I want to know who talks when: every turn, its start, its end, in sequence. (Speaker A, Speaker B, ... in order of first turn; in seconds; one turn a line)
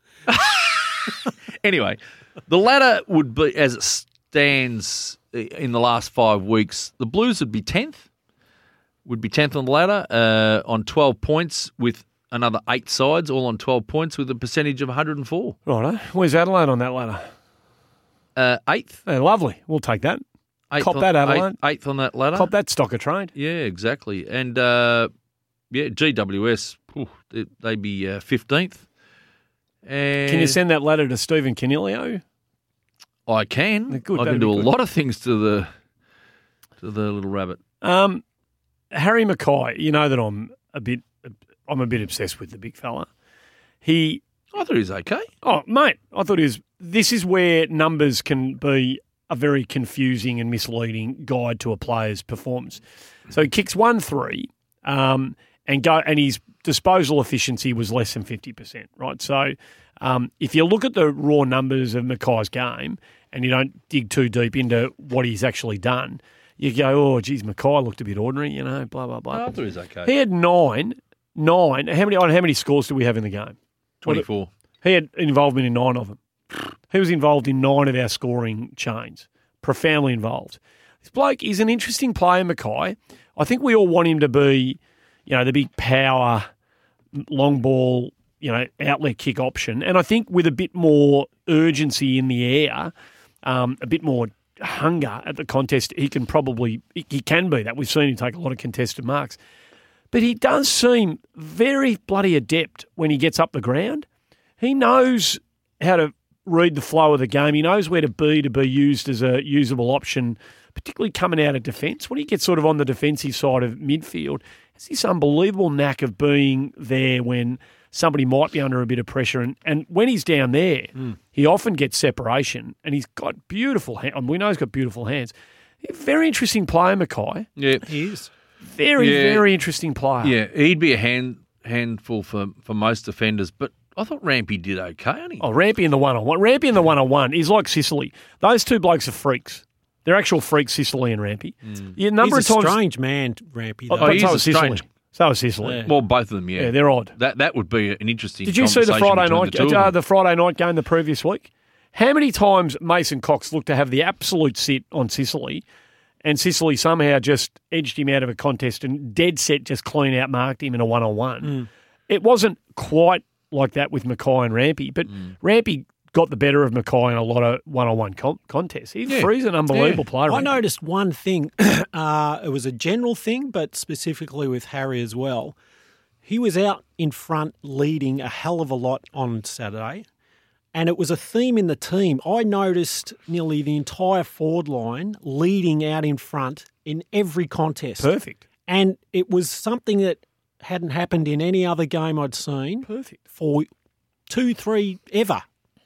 Speaker A: 0.3-8.0
Speaker A: 9.0-15.6
Speaker B: 15.7-17.2
Speaker A: 18.4-19.0
Speaker B: 19.1-20.2
Speaker A: 20.7-22.5
Speaker B: 20.8-21.6
Speaker B: 22.3-23.3
Speaker A: 23.3-25.1
Speaker A: 25.7-28.8
Speaker A: 29.8-30.6
Speaker B: 30.2-32.2
Speaker A: 33.3-35.7
Speaker B: 33.9-34.7
Speaker A: 36.8-37.6
Speaker B: 37.8-38.2
Speaker B: 38.9-43.1
Speaker B: 43.8-44.2
Speaker A: 44.5-45.3
Speaker B: 45.4-69.5
Speaker A: 69.3-70.1
Speaker B: 70.0-74.3
Speaker A: 74.0-74.5
Speaker B: 74.8-86.5
Speaker B: 87.1-92.9
Speaker B: 93.4-99.4
Speaker B: 100.1-104.0
Speaker B: 104.6-127.5
Speaker A: 127.6-127.9
Speaker C: 127.8-128.3
Speaker B: 128.6-130.3
Speaker A: 129.0-129.4
Speaker A: 130.2-135.4
Speaker B: 135.4-142.8
Speaker C: 142.2-144.4
Speaker B: 143.9-145.9
Speaker A: 144.0-144.8
Speaker C: 145.6-145.9
Speaker A: 145.8-149.9
Speaker B: 146.6-147.1
Speaker B: 148.4-155.6
Speaker B: 156.2-170.5
Speaker A: 169.1-170.0
Speaker C: 170.3-175.6
Speaker C: 176.2-180.1
Speaker C: 180.7-188.1
Speaker B: 188.0-188.4
Speaker C: 188.7-193.7
Speaker B: 192.8-193.2
Speaker C: 194.3-195.4